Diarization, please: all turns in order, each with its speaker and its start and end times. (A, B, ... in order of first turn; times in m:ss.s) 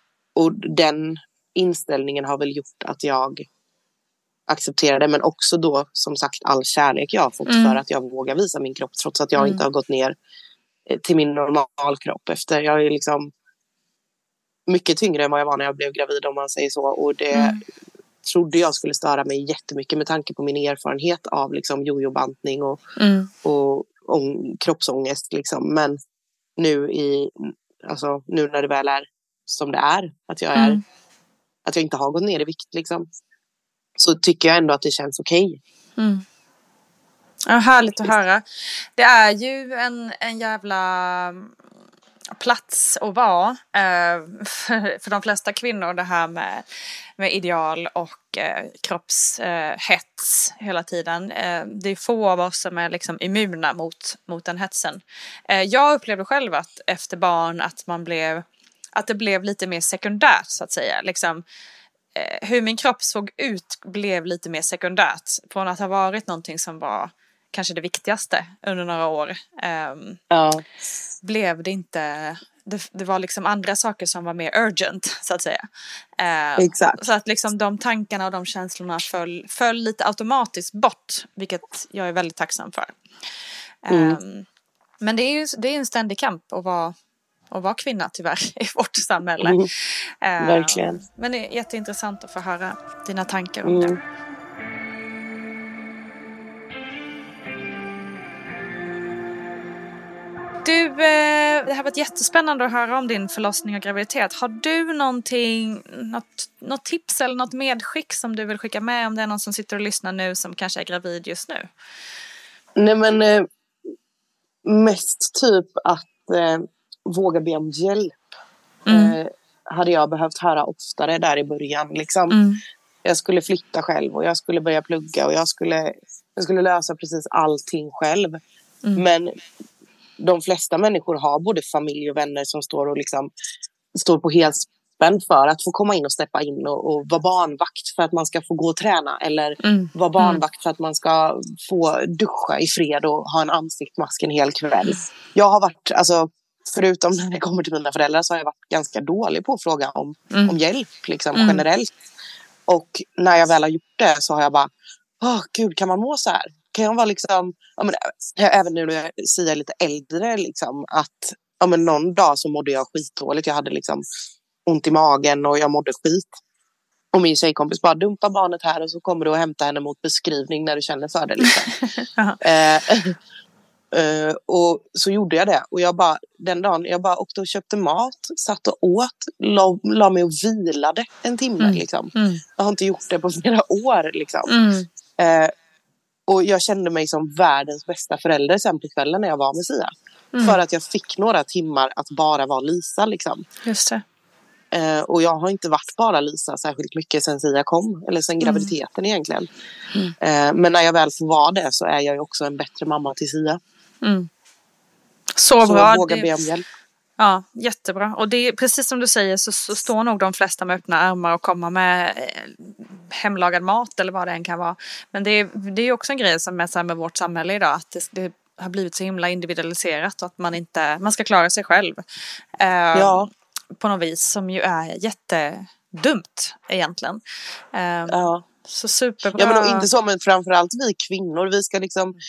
0:00.3-0:03.4 A
0:04.5-0:10.1 A
0:07.5-0:07.8 B
0:09.4-0:09.6 B
0:10.9-0:13.3 A
0:14.7-0:17.6 A
0:17.3-0:17.6 B
0:18.2-0:22.8 A
0:23.0-0:23.3 B
0:23.4-0:26.0 A
0:26.6-0:30.8 A
0:30.5-0:30.8 B
0:31.6-0:33.1 A
0:34.0-0:35.6 A
0:36.0-0:36.2 B
0:37.4-0:41.5 B
0:42.4-0:46.6 B
0:47.2-1:01.4 B
1:02.1-1:10.2 B
1:10.3-1:10.6 A
1:11.2-1:15.6 B
1:16.2-1:22.9 B
1:16.6-1:17.0 A
1:23.8-1:24.4 B
1:23.9-1:24.2 A
1:25.0-1:26.9 B
1:27.5-1:34.0 B
1:29.4-1:29.7 A
1:30.4-1:31.0 A
1:33.6-1:34.0 A
1:40.6-1:51.7 B
1:52.8-1:53.5 A
1:54.6-1:58.2 A
1:58.9-1:59.1 B
1:58.9-2:02.4 A
2:02.3-2:02.6 B
2:03.0-2:08.4 A
2:08.9-2:09.4 A
2:10.2-2:13.3 A
2:13.9-2:31.9 A
2:19.6-2:20.4 B
2:30.3-2:30.6 B
2:31.3-2:31.6 B
2:32.7-2:44.0 A
2:44.6-2:46.4 A
2:47.1-2:51.7 A
2:51.9-2:52.4 B
2:52.4-2:53.2 A
2:53.9-3:04.5 A
3:01.6-3:02.4 B
3:04.5-3:04.9 B
3:05.2-3:05.5 A
3:06.3-3:13.4 A
3:10.3-3:10.6 B
3:13.6-3:14.0 B
3:14.7-3:19.5 A
3:18.4-3:18.7 B
3:20.2-3:23.6 A
3:24.0-3:24.3 B
3:25.4-3:26.3 B
3:25.6-3:26.6 A
3:27.2-3:42.0 B
3:42.6-3:43.3 B
3:42.9-3:43.3 A
3:43.8-3:47.2 B
3:47.7-3:49.9 B
3:48.1-3:48.4 A
3:49.3-3:52.2 A